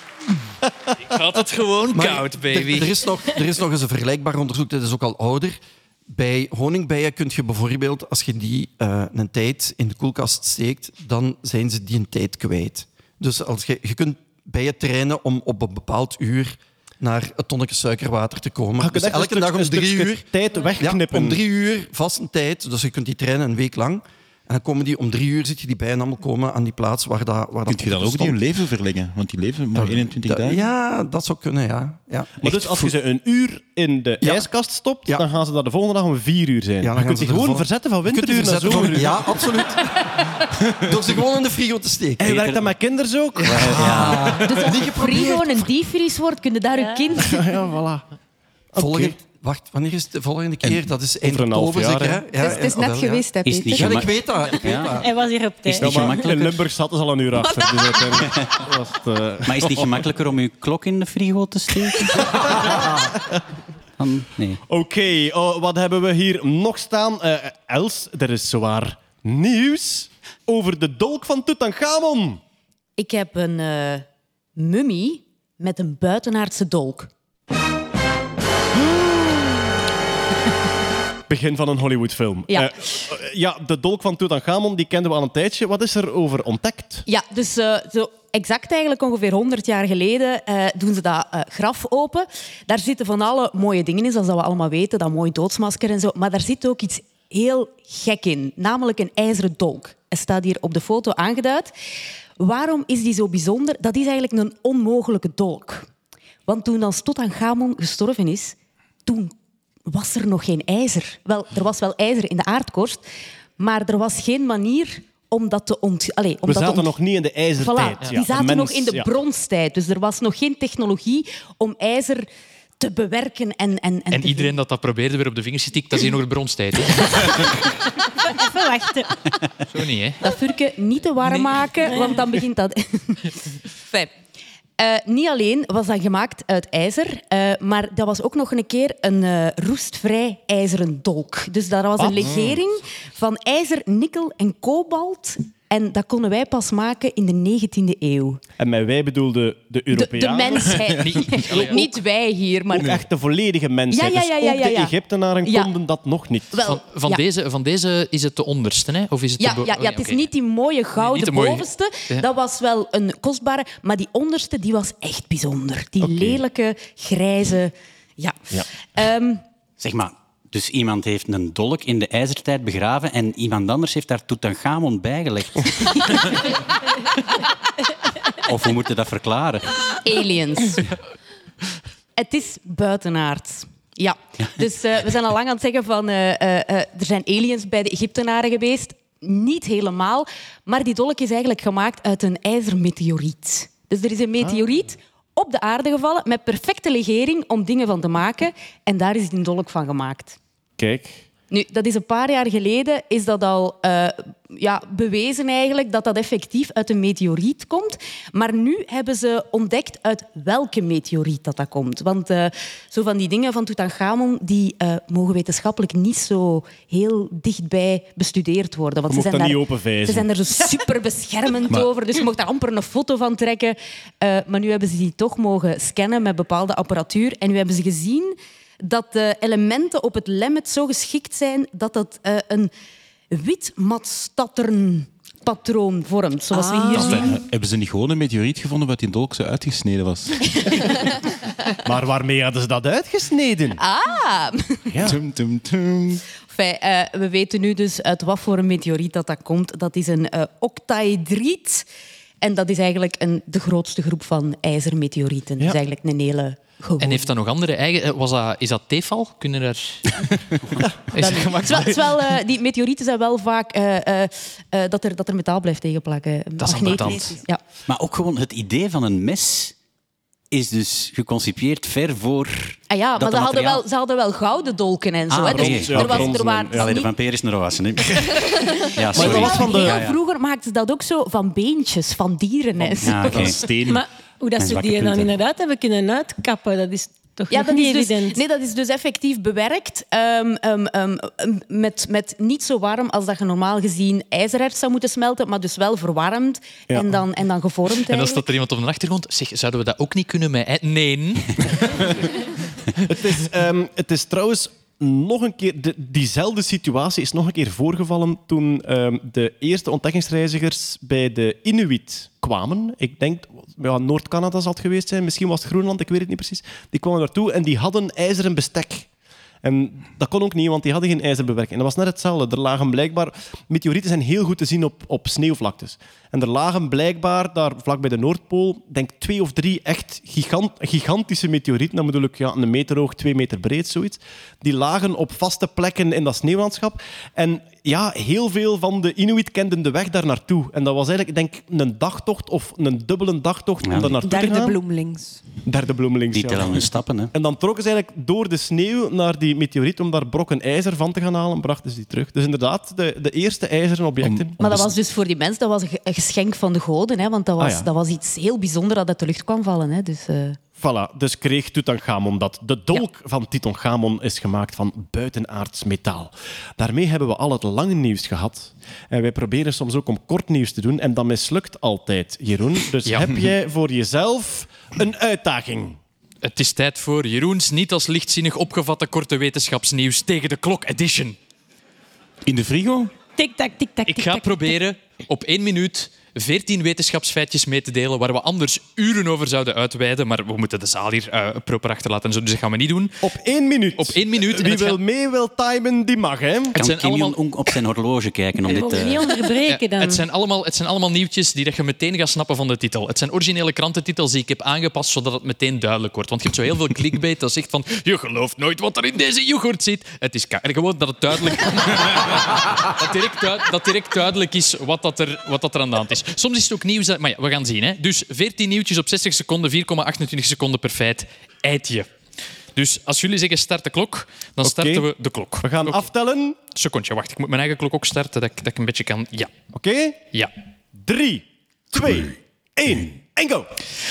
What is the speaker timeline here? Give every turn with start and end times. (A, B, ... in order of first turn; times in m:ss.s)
0:01.1-0:03.0 A
0:01.9-0:05.6 B
0:06.1-0:20.2 B
0:18.8-0:21.4 C
0:20.8-0:28.4 B
0:27.7-0:30.6 D
0:29.7-0:32.9 B
0:32.4-0:39.7 C
0:34.2-0:34.5 B
0:36.8-0:40.2 B
0:40.7-0:42.6 B
0:42.2-0:44.4 C
0:43.4-0:45.7 B
0:43.5-0:44.4 E
0:44.9-0:47.4 F
0:46.8-0:47.0 G
0:47.2-0:48.0 C
0:48.7-0:49.2 C
0:48.8-0:55.1 B
0:51.2-0:52.6 C
0:52.4-0:54.1 H
0:53.4-0:54.9 E
0:55.0-0:55.9 G
0:55.7-0:56.6 E
0:55.8-0:59.9 C
0:57.7-0:58.0 H
0:59.4-1:02.8 E
1:02.3-1:03.0 C
1:04.0-1:04.6 E
1:04.7-1:12.4 C
1:13.0-1:14.0 F
1:14.6-1:17.1 F
1:21.3-1:27.0 C
1:22.5-1:23.0 F
1:27.0-1:41.7 F
1:42.4-1:45.9 F
1:46.5-1:49.3 F
1:49.9-1:53.0 F
1:53.6-1:56.9 F
1:56.4-1:59.1 C
1:57.6-2:02.3 F
2:02.8-2:04.5 F
2:04.1-2:07.5 A
2:08.2-2:09.1 G
2:09.7-2:10.2 A
2:10.2-2:14.1 F
2:14.8-2:28.4 F
2:22.0-2:22.6 C
2:28.6-2:30.8 C
2:29.9-2:33.0 F
2:30.9-2:31.8 A
2:31.5-2:31.9 C
2:32.7-2:36.6 C
2:33.9-2:34.9 F
2:35.4-2:35.7 F
2:36.5-2:37.2 F
2:36.6-2:40.2 A
2:39.4-2:49.4 F
2:41.0-2:42.2 A
2:46.0-2:46.4 C
2:49.8-2:56.3 E
2:58.4-2:59.9 E
3:00.0-3:00.8 F
3:02.2-3:20.4 F
3:20.8-3:21.2 C
3:21.5-3:52.7 F
3:39.1-3:40.3 C
3:53.3-3:57.4 F
3:56.5-3:57.3 H
3:57.0-3:57.3 C
3:57.1-4:00.3 D
4:00.6-4:01.0 F
4:01.8-4:03.8 C
4:03.8-4:05.0 F
4:04.9-4:05.2 C
4:05.0-4:06.2 D
4:06.5-4:11.8 F
4:12.4-4:17.3 F
4:17.0-4:20.1 A
4:21.1-4:22.0 A
4:21.2-4:27.6 F
4:26.6-4:27.4 A
4:27.9-4:29.7 E
4:30.5-4:33.8 E
4:32.9-4:37.1 F
4:35.3-4:38.3 E
4:35.5-4:36.9 C
4:38.2-4:43.6 F
4:38.9-4:40.2 E
4:39.1-4:40.0 C
4:42.8-4:44.0 C
4:43.0-4:43.6 E
4:43.9-4:48.4 G
4:44.6-4:45.3 E
4:47.5-4:58.4 F
4:58.0-5:02.0 A
5:03.1-5:19.1 C
5:19.6-5:44.8 C
5:44.0-5:45.4 H
5:45.6-5:54.6 C
5:46.3-5:47.3 E
5:54.6-6:00.6 F
5:57.6-5:57.8 C
6:00.8-6:16.0 C
6:13.1-6:13.3 A
6:16.4-6:21.4 A
6:22.4-6:23.1 D
6:23.4-6:24.8 G
6:24.0-6:33.1 A
6:33.2-6:36.7 C
6:34.0-6:35.0 A
6:36.7-6:37.7 A
6:36.8-6:39.3 E
6:38.7-6:40.2 G
6:39.6-7:02.1 A
7:02.7-7:06.0 A
7:04.6-7:05.1 C
7:05.6-7:06.6 C
7:06.7-7:09.5 A
7:09.7-7:10.2 C
7:11.0-7:13.7 C